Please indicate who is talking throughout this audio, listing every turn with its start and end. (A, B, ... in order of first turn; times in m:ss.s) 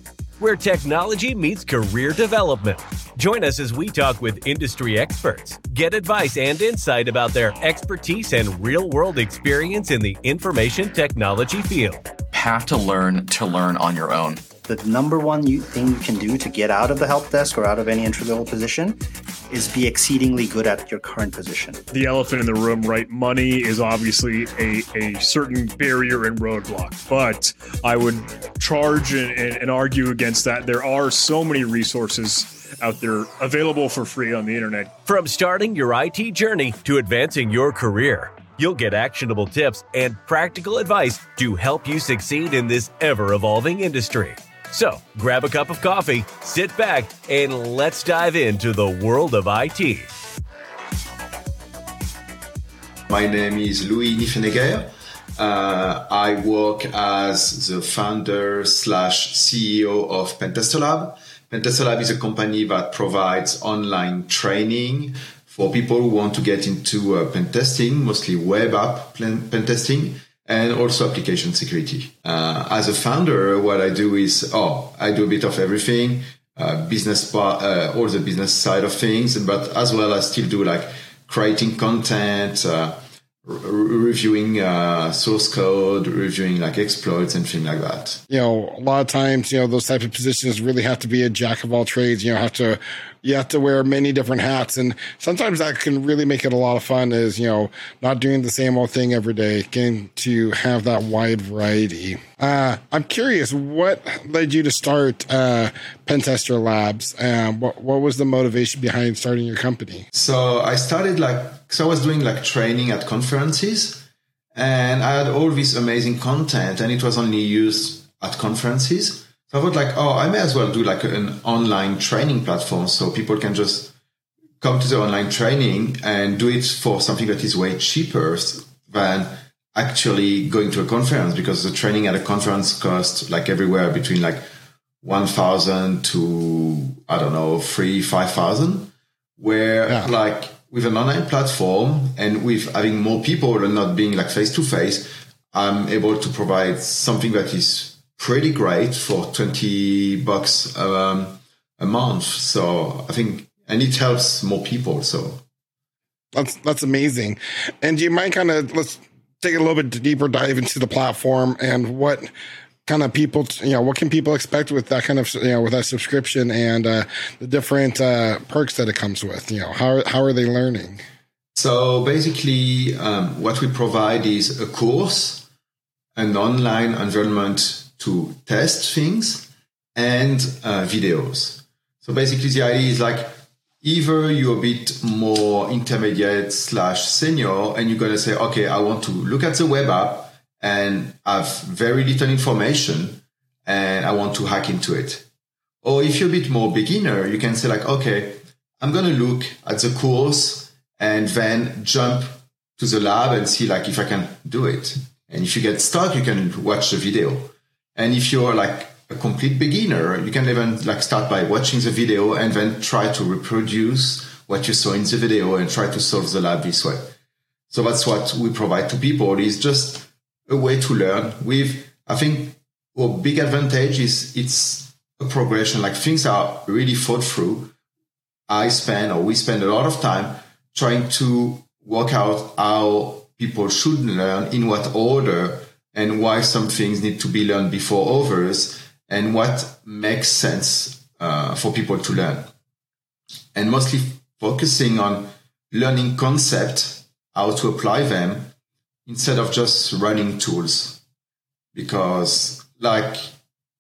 0:00.4-0:12.1 A
0:12.3-0:14.4 B
0:14.6-0:19.0 C
0:19.5-0:21.8 C
0:21.9-0:34.9 D
0:35.0-0:50.1 A
0:53.1-1:28.2 E
1:28.3-1:50.0 F
1:50.1-2:03.9 E
2:04.6-2:14.4 E
2:15.0-2:35.4 E
2:36.3-2:42.3 F
2:42.8-2:51.0 F
2:51.6-2:55.4 E
2:56.1-3:03.3 E
3:03.8-3:15.2 E
3:15.8-3:37.1 E
3:37.7-3:47.7 E
3:48.5-4:02.5 E
4:03.5-4:08.5 E
4:09.0-4:11.0 E
4:11.7-4:13.3 E